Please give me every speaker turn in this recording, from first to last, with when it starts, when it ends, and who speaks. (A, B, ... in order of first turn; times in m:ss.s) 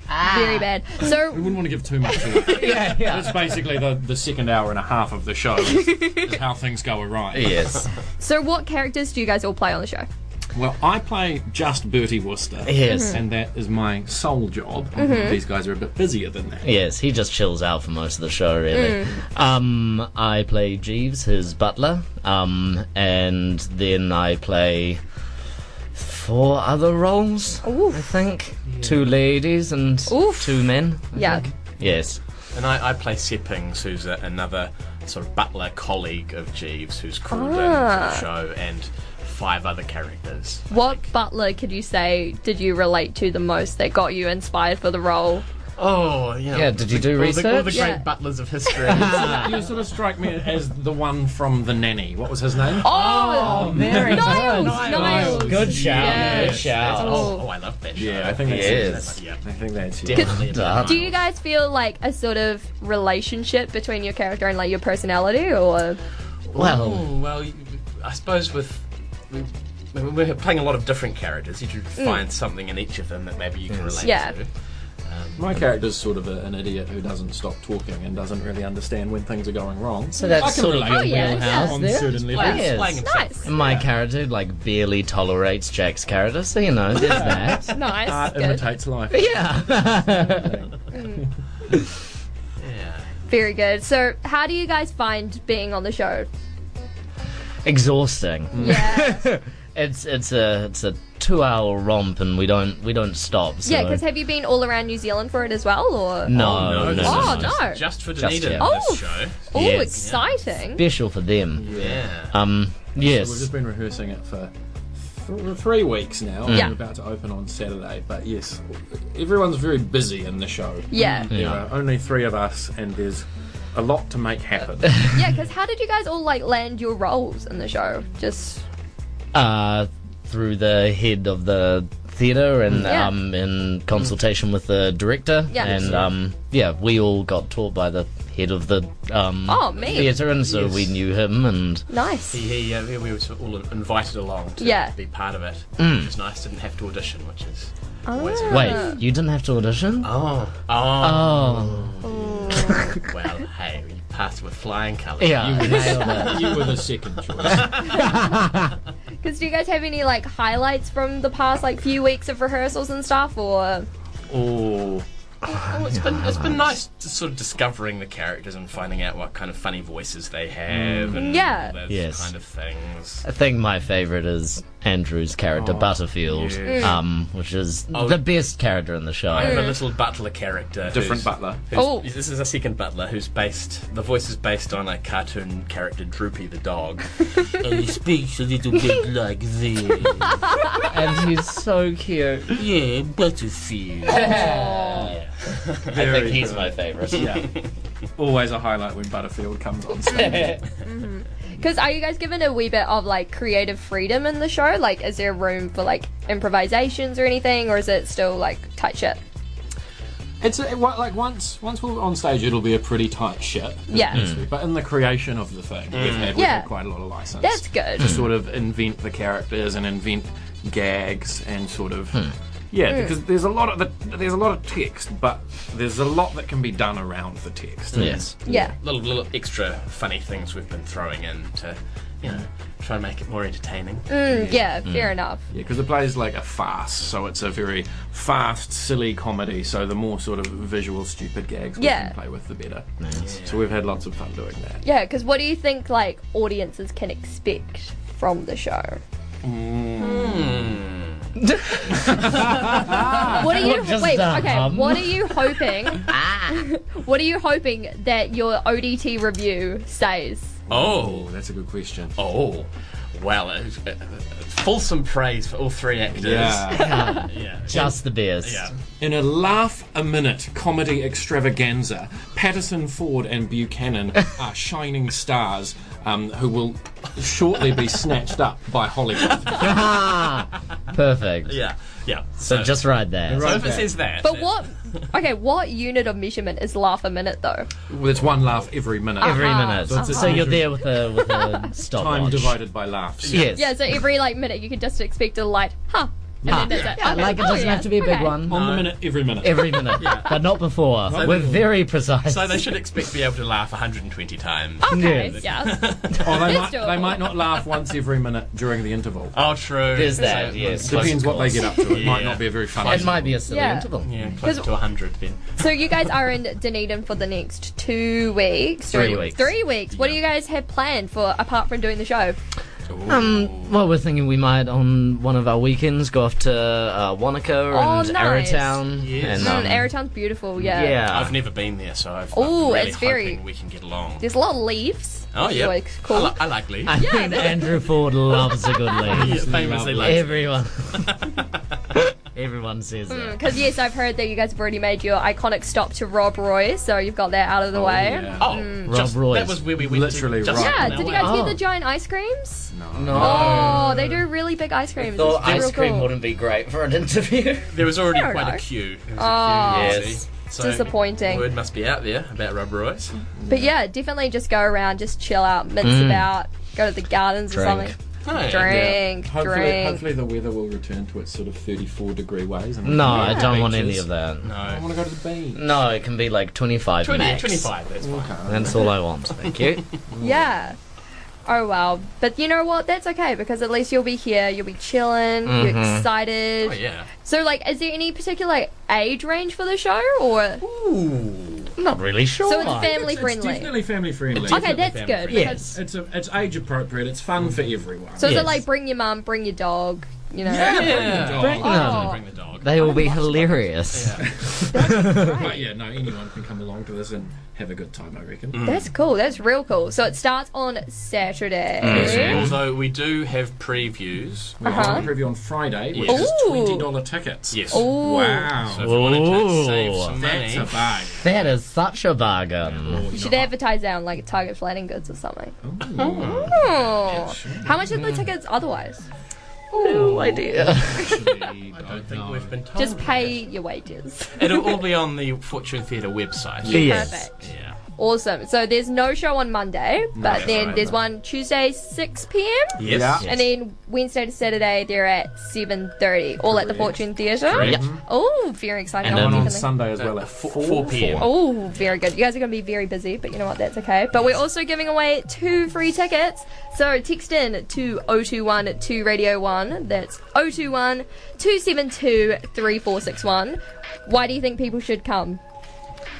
0:00.1-0:00.7 A
0:00.2-0:01.6 B
0:01.0-0:07.8 C
0:02.3-0:03.5 A
0:05.7-0:06.3 B
0:07.3-0:07.9 A
0:08.2-0:10.1 B
0:10.5-0:16.7 C
0:12.6-0:13.2 A
0:12.8-0:13.2 B
0:15.0-0:15.4 B
0:16.6-0:25.0 A
0:18.7-0:19.2 B
0:25.9-0:32.2 A
0:27.6-0:28.2 B
0:30.1-0:31.4 B
0:32.5-0:41.1 D
0:37.3-0:38.2 B
0:40.7-0:45.4 B
0:45.8-0:49.7 D
0:46.5-0:48.0 A
0:47.7-0:48.0 B
0:48.8-0:49.6 A
0:48.9-0:54.7 C
0:52.8-0:57.4 B
0:52.9-0:57.3 A
0:53.5-0:59.4 D
0:57.9-1:00.4 C
0:58.4-0:59.2 A
1:00.0-1:01.2 D
1:00.1-1:06.0 B
1:00.2-1:01.0 A
1:06.5-1:07.1 A
1:06.5-1:14.5 D
1:12.0-1:12.2 B
1:13.7-1:14.0 A
1:14.0-1:14.3 B
1:15.0-1:15.5 D
1:15.4-1:22.8 C
1:20.2-1:27.8 A
1:20.2-1:21.8 B
1:22.1-1:23.8 D
1:23.0-1:23.5 B
1:23.6-1:23.9 C
1:27.0-1:31.2 C
1:27.6-1:28.6 B
1:29.1-1:30.5 A
1:30.9-1:31.2 B
1:32.6-1:33.2 D
1:33.3-1:36.3 B
1:37.6-1:44.0 A
1:38.5-1:39.0 C
1:38.6-1:39.2 B
1:43.6-1:47.8 B
1:46.2-1:48.8 A
1:46.3-1:50.2 D
1:48.6-1:50.8 B
1:49.5-1:51.7 A
1:51.5-1:52.1 C
1:51.7-1:52.3 D
1:52.3-1:53.5 A
1:53.0-1:54.5 C
1:55.1-2:05.1 C
1:56.4-1:56.7 A
1:56.5-1:56.7 B
2:00.9-2:01.3 B
2:01.3-2:01.6 A
2:05.0-2:08.6 B
2:09.3-2:21.8 A
2:12.8-2:13.1 B
2:15.5-2:15.9 B
2:15.6-2:16.1 C
2:19.4-2:20.2 B
2:19.9-2:20.9 D
2:21.9-2:22.4 B
2:22.3-2:28.9 D
2:24.6-2:24.9 B
2:25.8-2:26.1 A
2:28.0-2:29.0 B
2:28.5-2:30.1 A
2:30.0-2:38.1 D
2:31.0-2:32.0 A
2:32.0-2:33.0 B
2:35.2-2:36.6 A
2:35.4-2:38.0 C
2:35.6-2:36.3 B
2:37.7-2:38.8 A
2:38.0-2:38.4 B
2:39.2-2:43.9 B
2:44.3-2:45.0 C
2:45.4-2:53.2 D
2:45.5-2:46.8 A
2:50.6-2:51.2 C
2:51.1-2:51.8 B
2:51.9-2:52.3 A
2:53.2-2:59.7 A
2:55.5-2:57.0 C
2:56.6-2:57.0 B
2:57.9-2:58.2 D
2:59.3-3:07.6 D
2:59.4-2:59.8 B
3:00.9-3:01.6 C
3:01.7-3:02.1 B
3:07.8-3:09.9 E
3:10.7-3:12.6 A
3:12.6-3:13.9 E
3:14.1-3:15.2 B
3:14.1-3:15.2 A
3:15.9-3:17.4 A
3:15.9-3:17.5 C
3:17.2-3:17.6 D
3:18.2-3:20.6 C
3:20.1-3:20.6 A
3:20.1-3:29.2 B
3:30.4-3:48.6 C
3:33.9-3:34.3 B
3:34.1-3:34.4 A
3:35.9-3:36.4 D
3:36.3-3:36.7 B
3:37.4-3:38.2 B
3:42.9-3:43.1 B
3:47.9-3:54.1 D
3:47.9-3:48.3 A
3:48.4-3:48.8 B
3:54.1-3:55.4 B
3:54.2-3:54.7 C
3:54.8-3:55.1 A
3:55.5-4:02.9 C
4:01.8-4:02.1 B
4:03.0-4:03.3 A
4:03.2-4:03.7 D
4:03.4-4:04.8 C
4:04.8-4:09.0 B
4:09.4-4:10.7 C
4:09.9-4:11.2 D
4:11.4-4:16.6 A
4:12.1-4:13.4 C
4:13.2-4:20.6 B
4:20.7-4:22.1 C
4:20.7-4:21.3 D
4:22.2-4:28.7 D
4:26.1-4:27.0 C
4:26.7-4:28.7 A
4:26.8-4:27.3 B
4:29.0-4:39.8 C
4:39.4-4:40.1 D
4:39.6-4:41.6 A
4:41.4-4:42.8 D
4:42.4-4:43.7 A
4:43.2-4:44.0 C
4:43.4-4:44.6 D
4:44.2-4:47.7 B
4:47.9-4:50.8 C
4:49.2-4:51.7 B
4:49.2-4:52.6 A
4:51.9-4:53.5 C
4:53.2-4:53.7 D
4:53.3-4:53.8 A
4:53.5-4:58.3 B
4:56.4-4:56.7 C
4:56.4-5:02.7 A
4:56.6-4:57.6 D
4:58.4-4:59.9 C
4:58.5-4:59.1 D
4:59.9-5:00.5 D
5:01.0-5:01.7 C
5:01.1-5:01.6 D
5:02.2-5:06.6 D
5:04.8-5:07.6 B
5:04.9-5:05.4 A
5:06.2-5:09.4 C
5:09.3-5:13.3 D
5:09.9-5:11.8 A
5:10.2-5:13.4 C
5:12.8-5:14.2 A
5:13.5-5:13.9 B
5:13.9-5:16.3 D
5:14.4-5:14.7 B
5:15.6-5:22.4 B
5:18.9-5:19.5 A
5:19.9-5:20.2 D
5:22.9-5:23.6 C
5:23.0-5:29.9 A
5:27.7-5:28.8 B
5:29.0-5:29.6 D
5:29.4-5:31.0 B
5:30.6-5:31.4 A
5:31.0-5:34.3 D
5:32.3-5:33.4 B
5:34.2-5:36.4 B
5:35.3-5:37.0 D
5:36.8-5:41.3 A
5:36.9-5:39.4 B
5:39.0-5:41.4 D
5:39.0-5:40.4 C
5:41.9-5:43.4 A
5:43.1-5:48.9 B
5:47.7-5:48.6 C
5:48.4-5:51.4 D
5:48.8-5:49.6 A
5:49.8-5:51.4 C
5:50.5-5:56.1 B
5:51.2-5:51.6 A
5:52.7-5:53.8 C
5:52.9-5:54.2 A
5:53.1-5:54.0 D
5:55.0-5:57.9 A
5:55.2-5:55.8 D
5:57.7-6:03.2 D
5:58.1-5:58.6 B
5:59.2-6:01.5 B
5:59.6-6:00.2 A
6:03.4-6:03.7 C
6:03.5-6:10.0 B
6:05.8-6:06.3 A
6:07.5-6:07.9 A
6:08.2-6:09.0 D
6:08.7-6:14.1 C
6:12.8-6:14.5 A
6:13.0-6:13.6 B
6:14.4-6:15.0 D
6:14.6-6:15.6 C
6:15.5-6:17.7 A
6:17.0-6:18.8 D
6:18.0-6:18.9 C
6:18.4-6:19.9 A
6:19.4-6:19.8 D
6:20.1-6:20.4 C
6:20.2-6:20.8 B
6:21.4-6:30.6 B
6:25.4-6:26.1 A
6:26.6-6:27.1 D
6:30.6-6:31.7 D
6:31.8-6:33.0 A
6:32.4-6:33.7 B
6:32.6-6:34.9 C
6:34.3-6:35.6 D
6:34.4-6:35.6 B
6:35.3-6:35.8 A
6:35.6-6:38.6 C
6:38.2-6:43.7 B
6:38.2-6:38.6 A
6:40.4-6:42.7 D
6:40.6-6:42.0 C
6:41.4-6:44.2 A
6:43.9-6:44.3 D
6:44.2-6:48.6 C
6:44.7-6:45.6 B
6:44.8-6:45.4 A
6:48.5-6:48.9 D
6:48.6-6:52.4 B
6:51.8-6:52.5 A
6:51.9-6:55.2 D
6:51.9-6:52.6 C
6:54.6-6:58.9 C
6:54.6-6:55.0 B
6:55.9-6:56.3 D
6:56.0-6:56.9 B
6:57.5-6:57.9 D
6:57.7-6:58.5 B
6:58.6-7:00.9 D
6:58.8-7:00.1 A
7:00.2-7:01.3 C
7:01.2-7:03.0 A
7:02.7-7:03.5 C
7:03.1-7:05.5 B
7:05.6-7:07.9 C
7:05.9-7:06.6 D
7:06.1-7:09.0 B
7:09.7-7:11.4 A
7:09.7-7:10.5 D
7:10.6-7:12.6 C
7:11.7-7:13.4 D
7:12.7-7:14.6 B
7:14.3-7:17.8 D
7:16.6-7:17.1 C
7:16.7-7:17.3 A
7:16.7-7:17.4 B
7:18.0-7:29.7 B
7:20.1-7:21.0 C
7:20.3-7:20.6 D
7:22.8-7:23.2 D
7:22.8-7:23.3 C
7:22.9-7:23.5 A
7:26.4-7:28.0 C
7:27.5-7:27.8 D
7:29.0-7:31.3 C
7:29.0-7:29.6 A
7:29.9-7:31.3 D
7:31.2-7:45.4 B